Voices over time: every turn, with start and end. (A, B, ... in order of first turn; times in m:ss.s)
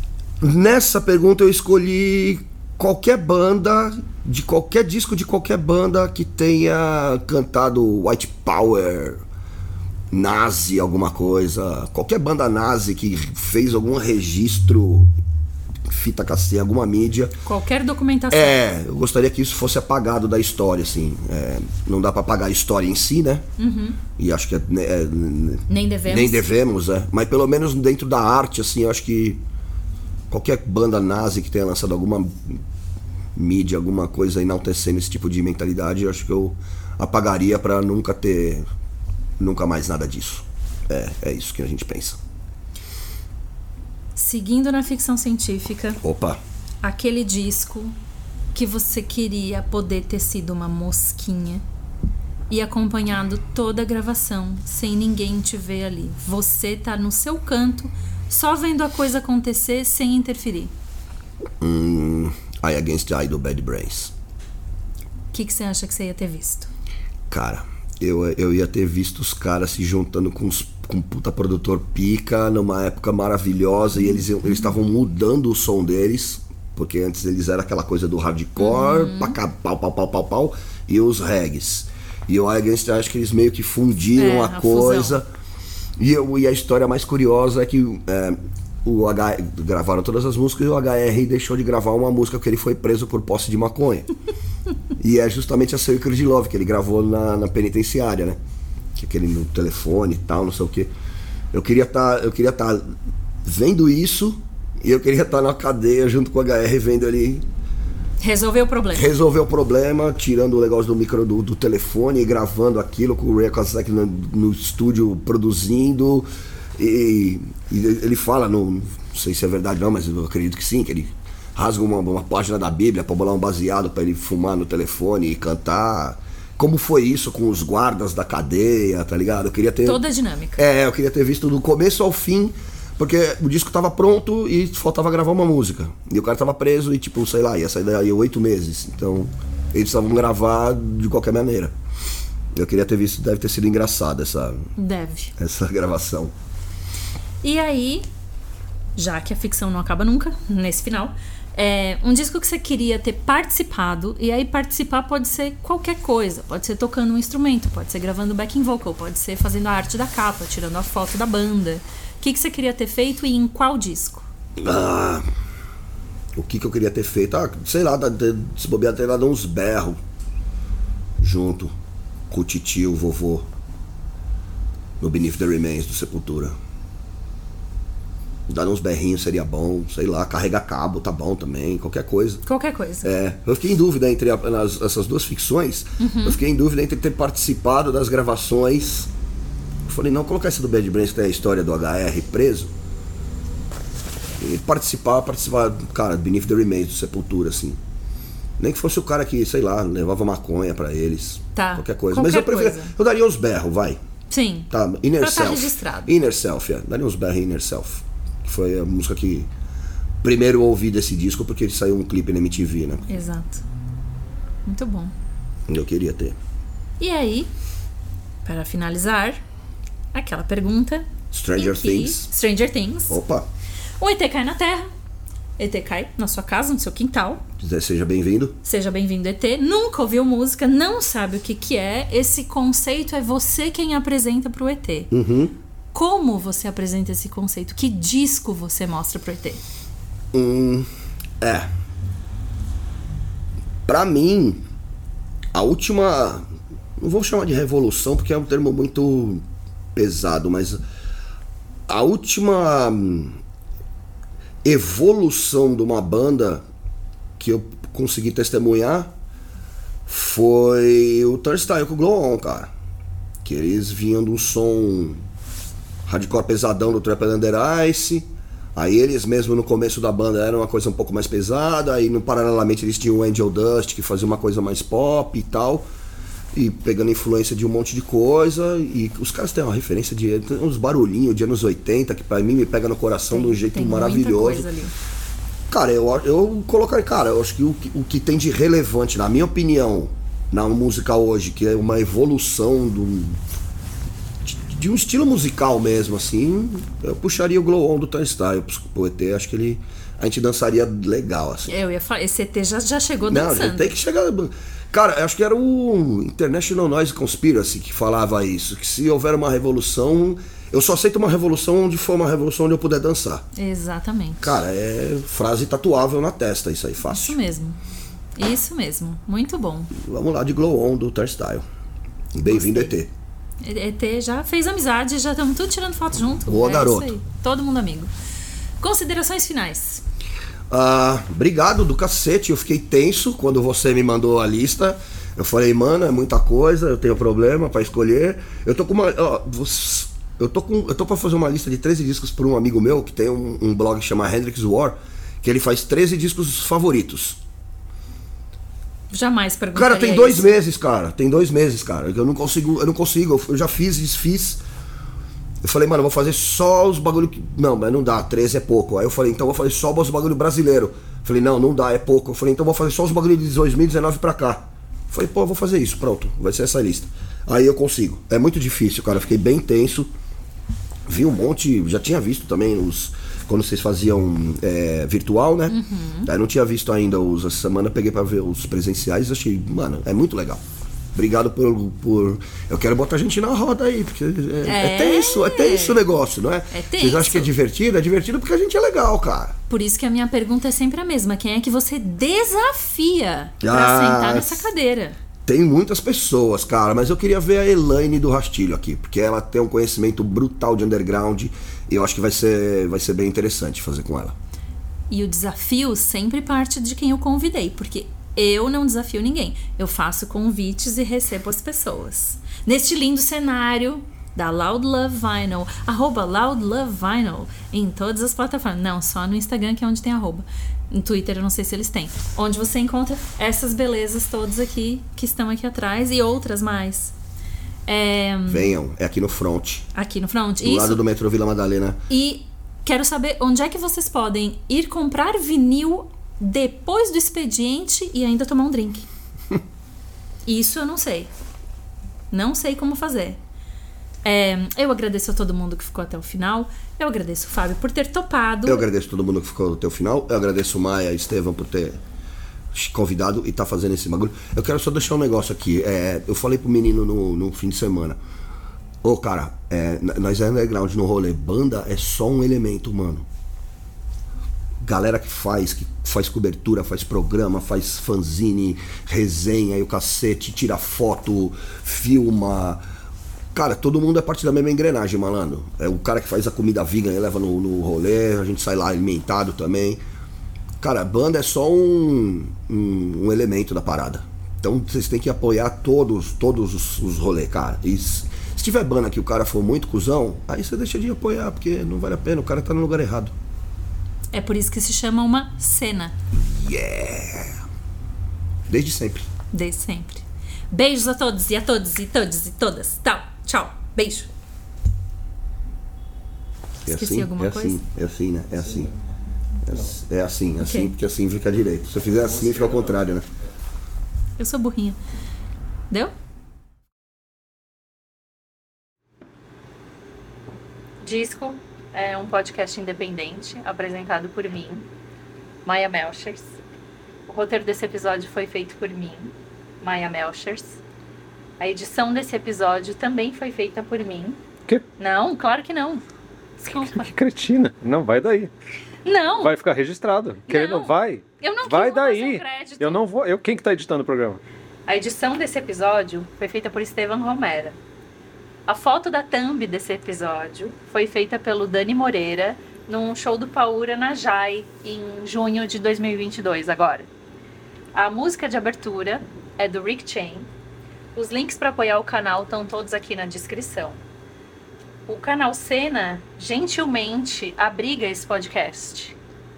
0:00.4-0:09.2 A
0:10.1-0:15.1 A
0:15.9-0:17.3 A
0:17.4-0:18.6 B
0:18.3-0:23.5 A
0:23.6-0:24.0 B
0:24.2-0:29.4 A
0:25.7-0:26.4 B
0:30.3-0:32.6 A
0:33.4-0:38.6 A
0:39.4-0:42.2 A
0:44.2-0:46.0 B
0:46.0-0:46.4 A
0:46.8-0:48.0 B
0:48.5-0:51.6 B
0:52.5-1:00.7 B
1:01.6-1:04.1 A
1:05.3-1:06.7 B
1:07.3-1:25.2 A
1:18.6-1:19.4 B
1:24.2-1:25.2 B
1:26.0-1:34.1 A
1:35.0-1:38.4 A
1:39.0-1:40.9 A
1:41.5-1:42.9 A
1:43.4-1:47.4 A
1:48.2-1:49.1 B
1:49.0-2:10.0 A
2:09.8-2:10.6 B
2:10.6-2:21.7 A
2:22.6-2:24.7 A
2:24.8-2:25.3 B
2:25.4-2:26.3 A
2:27.4-2:28.1 B
2:29.0-2:44.3 B
2:44.6-2:45.2 A
2:46.4-2:50.0 A
2:51.2-2:51.7 A
2:52.3-2:53.5 A
2:55.0-2:56.6 A
2:58.5-3:02.4 A
3:02.5-3:03.1 B
3:03.0-3:09.1 A
3:06.0-3:06.4 B
3:09.9-3:12.7 A
3:14.4-3:17.8 A
3:18.6-3:24.0 A
3:21.6-3:22.9 B
3:24.3-3:26.1 B
3:24.7-3:29.5 A
3:30.2-3:33.2 A
3:33.1-3:33.6 B
3:34.7-3:35.1 B
3:35.7-3:36.4 A
3:37.0-3:37.5 B
3:38.4-3:39.4 B
3:40.1-3:43.2 B
3:41.3-3:42.3 A
3:43.1-3:43.5 A
3:44.0-3:44.9 B
3:45.6-3:47.4 B
3:47.6-3:48.6 A
3:48.6-3:55.1 B
3:55.1-3:55.5 A
3:55.9-3:59.6 B
4:00.3-4:00.9 A
4:01.4-4:01.7 A
4:03.9-4:04.6 A
4:05.5-4:06.4 A
4:07.0-4:09.4 A
4:09.9-4:10.8 A
4:11.9-4:13.4 A
4:14.6-4:16.6 A
4:17.4-4:19.1 A
4:20.1-4:22.7 A
4:23.4-4:25.2 A
4:26.1-4:35.9 A
4:36.5-4:44.7 A
4:43.3-4:44.9 B
4:45.7-4:53.4 A
4:54.4-5:01.7 A
5:01.7-5:04.0 B
5:03.3-5:13.5 A
5:13.6-5:14.6 B
5:14.4-5:17.4 A
5:17.1-5:17.8 B
5:18.4-5:19.9 B
5:19.9-5:21.6 A
5:22.3-5:23.1 A
5:22.5-5:22.9 B
5:23.6-5:28.1 B
5:26.4-5:27.1 A
5:28.8-5:30.0 B
5:30.7-5:47.4 A
5:49.1-5:50.5 B
5:49.7-5:54.6 A
5:55.6-6:10.1 A
6:11.1-6:20.6 A
6:15.7-6:16.3 B
6:21.2-6:29.6 A
6:24.6-6:26.0 B
6:26.7-6:27.5 B
6:29.7-6:35.2 B
6:33.6-6:34.7 A
6:35.5-6:44.4 A
6:45.1-7:07.1 B
7:07.9-7:08.7 B
7:08.5-7:09.9 A
7:09.9-7:11.0 B
7:10.6-7:12.0 A
7:12.1-7:19.1 B
7:20.5-7:21.3 B
7:22.3-7:23.4 B
7:24.2-7:28.8 B
7:28.7-7:32.0 A
7:32.7-7:38.2 A
7:39.0-7:43.2 A
7:44.8-7:52.8 A
7:53.5-8:00.0 A
8:00.8-8:13.3 A
8:14.3-8:16.1 B
8:16.3-8:17.6 A
8:18.7-8:19.3 A
8:19.5-8:24.3 B
8:26.8-8:28.9 A
8:26.9-8:27.8 B
8:29.6-8:33.2 A
8:30.6-8:30.9 B
8:34.4-8:35.0 B
8:41.0-8:44.9 B
8:45.7-8:46.6 B
8:47.3-8:50.8 B
8:51.6-8:54.4 B
8:55.0-8:56.0 B
8:56.6-8:57.1 B
8:56.9-8:58.5 C
8:59.0-8:59.5 B
8:59.4-9:04.4 C
9:00.5-9:03.0 B
9:04.9-9:07.8 B
9:08.7-9:17.1 B
9:18.0-9:20.5 B
9:21.2-9:24.0 B
9:25.1-9:29.2 B